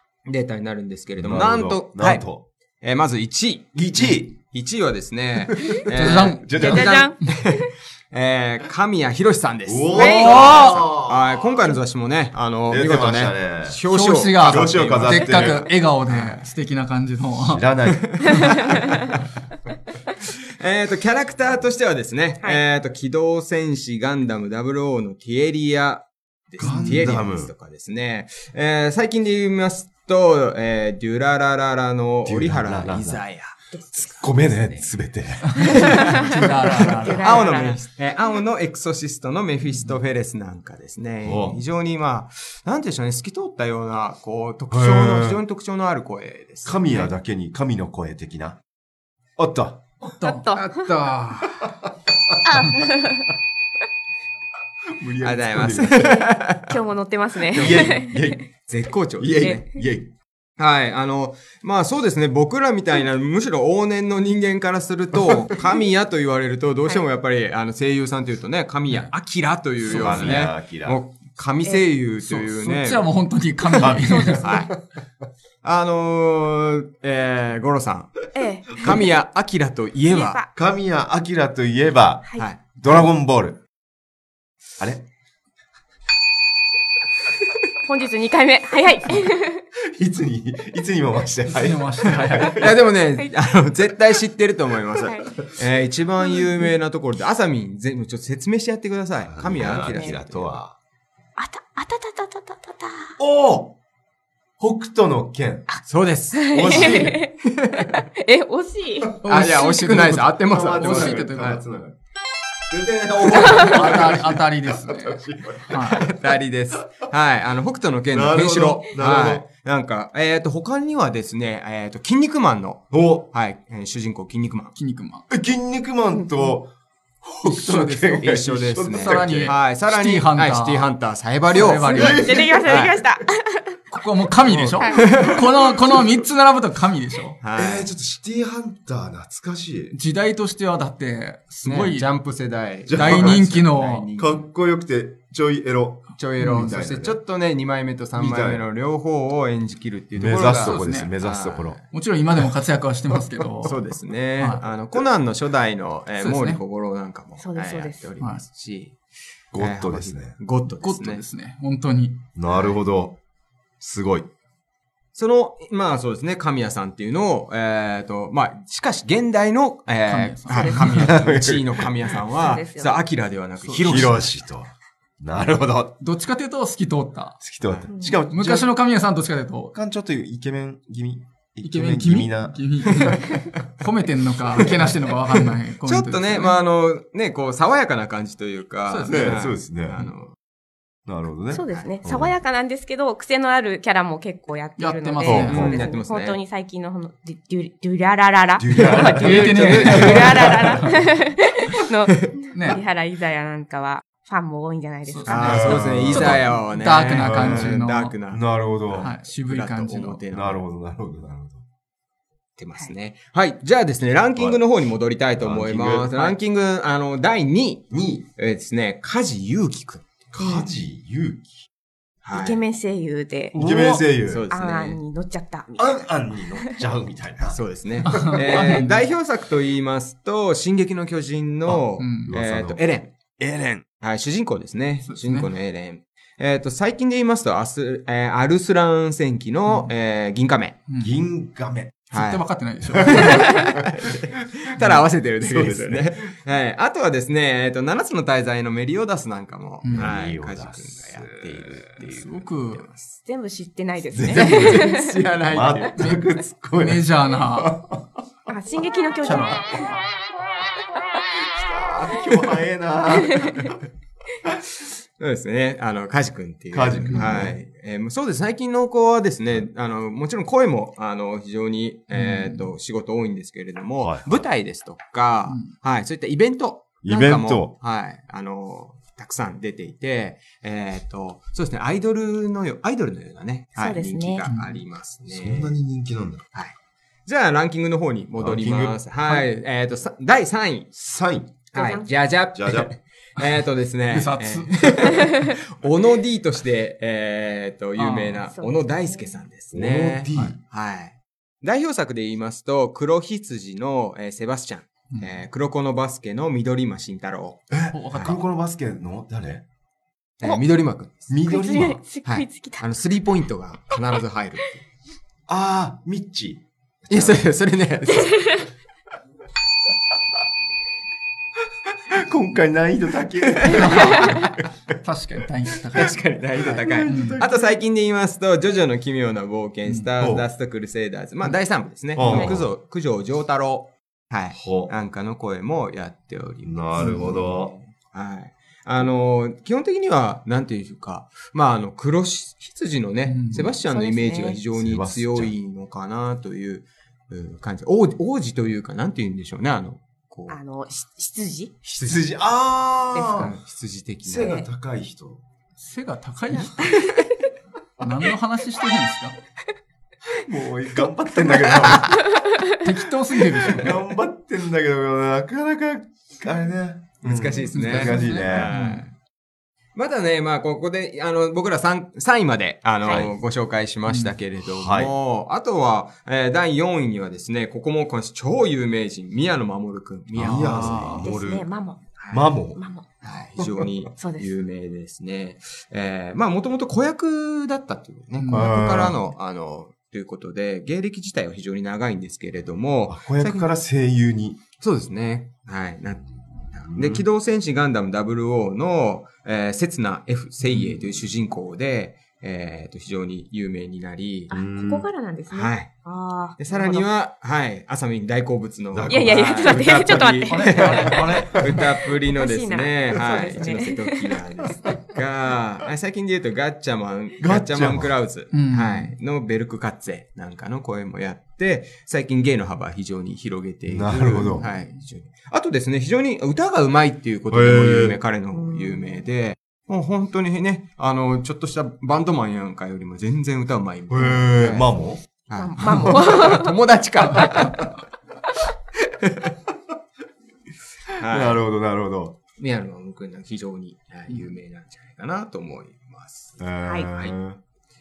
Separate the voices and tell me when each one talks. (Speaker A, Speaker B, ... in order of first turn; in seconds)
Speaker A: 0.3-16.5, 18.0-19.0, 20.6-34.9, 35.6-47.0, 50.5-51.7, 55.2-56.8, 57.5-58.0, 58.6-59.7, 60.6-73.1, 74.4-74.7, 75.6-80.4, 82.4-82.9, 92.6-100.6, 105.9-107.8, 109.3-111.6, 113.1-114.2, 116.0-124.8, 128.3-133.0, 134.6-135.4, 137.4-137.9, 141.6-144.5, 146.2-151.9, 153.6-159.0, 159.6-161.2, 162.5-162.8, 165.2-174.3, 183.0-183.3, 184.6-185.0, 185.8-190.3, 195.4-196.4, 198.8-200.2, 205.2-210.7, 212.6-220.1, 222.2-222.6, 224.0-225.0, 227.5-233.1, 234.0-240.8, 242.1-242.5, 243.1-253.2, 254.3-256.0, 265.2-285.8, 287.3-290.9, 291.7-307.6, 310.4-311.4, 312.2-314.8, 317.1-318.7, 323.5-324.5, 325.9-350.6, 353.4-354.6, 367.2-369.1, 370.0-381.2, 382.2-382.5, 383.2-393.7, 394.8-404.5, 405.5-406.0, 406.6-434.9, 435.5-437.9, 441.2-441.6, 442.6-447.4
Speaker B: 1.2-2.5, 3.7-4.4, 5.6-7.0, 9.7-11.8, 12.7-15.7, 17.4-18.6, 26.6-27.5, 32.2-33.2, 34.0-35.9, 41.2-41.6, 44.7-45.4, 46.6-48.6, 49.4-49.8, 55.0-56.3, 57.5-58.5, 59.2-60.1, 69.8-71.0, 73.8-74.7, 80.5-83.6, 84.8-85.0, 90.0-92.9, 99.3-100.8, 103.2-103.8, 104.6-105.7, 106.5-107.3, 110.3-112.0, 112.7-116.3, 118.1-119.5, 122.9-123.3, 125.3-126.7, 127.2-129.6, 131.6-132.7, 137.6-140.0, 142.9-143.5, 144.2-147.2, 148.2-148.7, 150.2-151.8, 159.5-160.4, 162.4-163.2, 163.8-164.3, 170.9-171.9, 173.8-175.9, 177.4-178.8, 179.7-183.0, 189.1-190.0, 191.1-192.4, 195.2-195.8, 198.6-200.9, 205.4-206.5, 207.2-207.8, 208.3-209.1, 210.3-211.6, 214.3-214.7, 215.4-216.3, 217.9-218.2, 220.3-221.7, 223.6-224.4, 225.8-228.3, 231.7-232.8, 233.4-233.8, 241.0-242.1, 242.9-243.7, 244.8-246.2, 249.9-251.9, 254.1-254.9, 255.5-257.9, 261.6-263.7, 266.7-267.6, 274.0-274.4, 277.0-277.7, 285.3-286.4, 288.4-289.0, 290.9-291.5, 292.5-293.0, 299.7-300.6, 307.7-309.7, 310.4-310.7, 311.3-312.0, 315.5-317.4, 322.1-324.6, 326.6-327.6, 330.2-330.5, 332.1-332.7, 334.5-334.9, 336.6-337.7, 344.7-345.6, 351.9-353.5, 354.2-355.4, 360.4-362.3, 363.6-368.7, 373.1-373.4, 374.6-375.1, 380.4-381.7, 382.3-382.8, 383.6-383.8, 388.5-389.2, 393.1-394.6, 396.9-397.2, 404.5-405.1, 408.9-410.0, 417.4-418.1, 423.9-424.6, 427.5-428.2, 434.1-435.2, 441.2-442.4, 446.6-447.6
Speaker C: 6.0-6.8, 10.2-10.9, 13.9-17.6, 26.6-27.1, 35.5-37.5, 50.0-50.5, 70.0-70.3, 72.2-74.4, 91.5-92.6, 109.2-111.6, 113.6-116.0, 124.8-125.3, 127.5-128.3, 128.9-132.4, 133.9-137.4, 139.9-142.2, 142.9-144.1, 146.4-146.8, 150.3-151.1, 151.9-153.8, 154.4-154.6, 156.2-156.6, 160.7-162.2, 170.1-171.2, 173.6-174.2, 176.0-177.4, 178.3-179.8, 181.6-186.6, 188.9-189.5, 194.8-195.8, 199.1-200.7, 202.5-202.8, 205.1-208.2, 208.9-210.2, 223.6-224.0, 228.1-229.0, 232.0-232.3, 235.0-235.5, 240.9-241.2, 242.1-243.6, 249.8-250.1, 252.1-252.9, 256.0-257.8, 259.2-260.0, 267.1-267.5, 272.1-272.7, 275.5-275.7, 284.5-284.8, 294.1-295.1, 298.0-298.4, 305.1-305.4, 307.9-308.4, 323.7-324.4, 325.0-326.1, 327.1-327.4, 337.0-337.4, 343.3-343.8, 355.8-357.0, 358.0-359.4, 362.8-364.0, 367.7-369.1, 374.1-374.4, 380.4-381.3, 388.4-388.8, 410.5-411.7, 418.5-419.1, 424.4-424.9
Speaker D: 6.5-7.4, 9.9-10.4, 33.8-34.3, 36.9-37.8, 50.2-50.9, 52.5-53.3, 56.0-58.4, 59.4-59.8, 74.0-74.5, 78.3-79.0, 80.0-80.5, 87.8-89.6, 95.0-95.4, 96.3-96.6, 99.9-100.2, 101.4-103.2, 105.7-109.1, 126.2-126.5, 132.0-133.7, 134.8-135.3, 157.4-158.1, 170.5-171.1, 172.3-173.1, 177.9-178.2, 191.5-205.8, 220.4-220.7, 222.3-223.6, 224.5-226.8, 253.2-255.2, 258.5-259.9, 263.2-263.6, 283.8-284.5, 291.7-292.2, 298.4-299.4, 311.5-312.9, 343.9-344.6, 350.5-351.7, 353.1-353.5, 354.4-354.7, 361.8-362.6, 373.0-373.3, 381.2-383.1, 384.2-384.5, 404.5-407.1, 409.1-411.2, 412.1-415.0, 428.5-429.2, 435.5-436.8, 446.9-447.1